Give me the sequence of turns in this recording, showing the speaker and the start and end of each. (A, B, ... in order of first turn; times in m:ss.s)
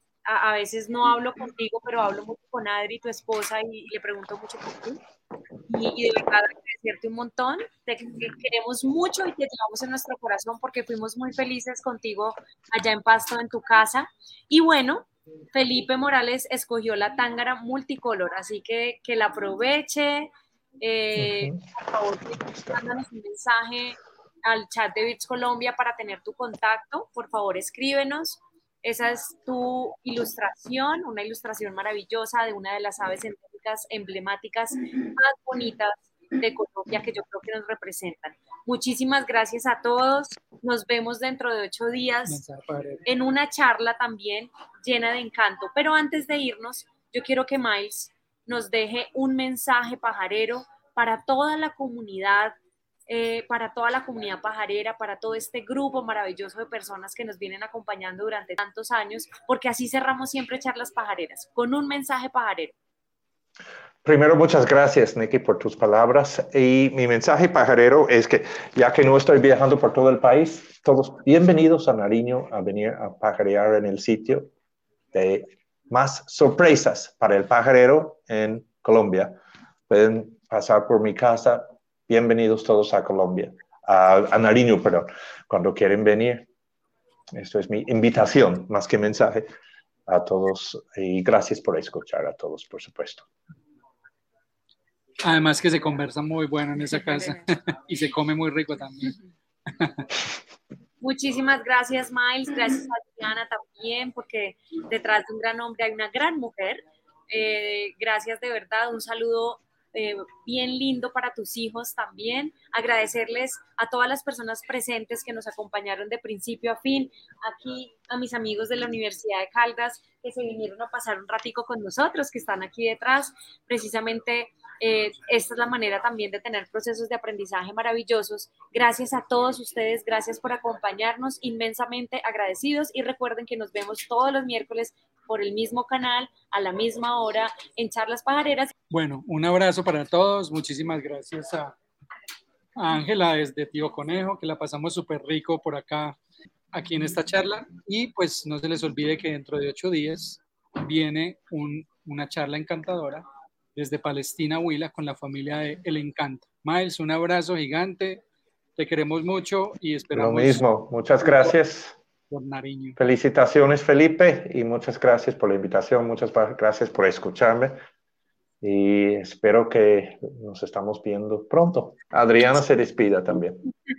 0:00.3-0:05.0 A
0:05.7-0:42.4 A
0:21.2-0:21.6 B
0:22.4-0:22.8 B
0:42.3-0:43.0 C
0:43.0-1:02.8 A
1:04.0-1:14.5 B
1:15.1-1:19.4 B
1:19.9-1:26.5 B
1:27.3-1:29.5 B
1:30.1-1:33.3 B
1:35.2-1:39.2 C
1:39.8-1:40.0 C
1:41.0-2:18.7 A
2:18.9-2:21.8 C
2:22.8-2:26.2 C
2:26.7-2:33.2 C
2:33.8-2:38.2 C
2:38.8-2:40.6 C
2:40.1-2:42.0 B
2:41.2-2:41.5 C
2:42.3-2:43.0 C
2:43.0-2:47.8 B
2:48.6-2:53.6 B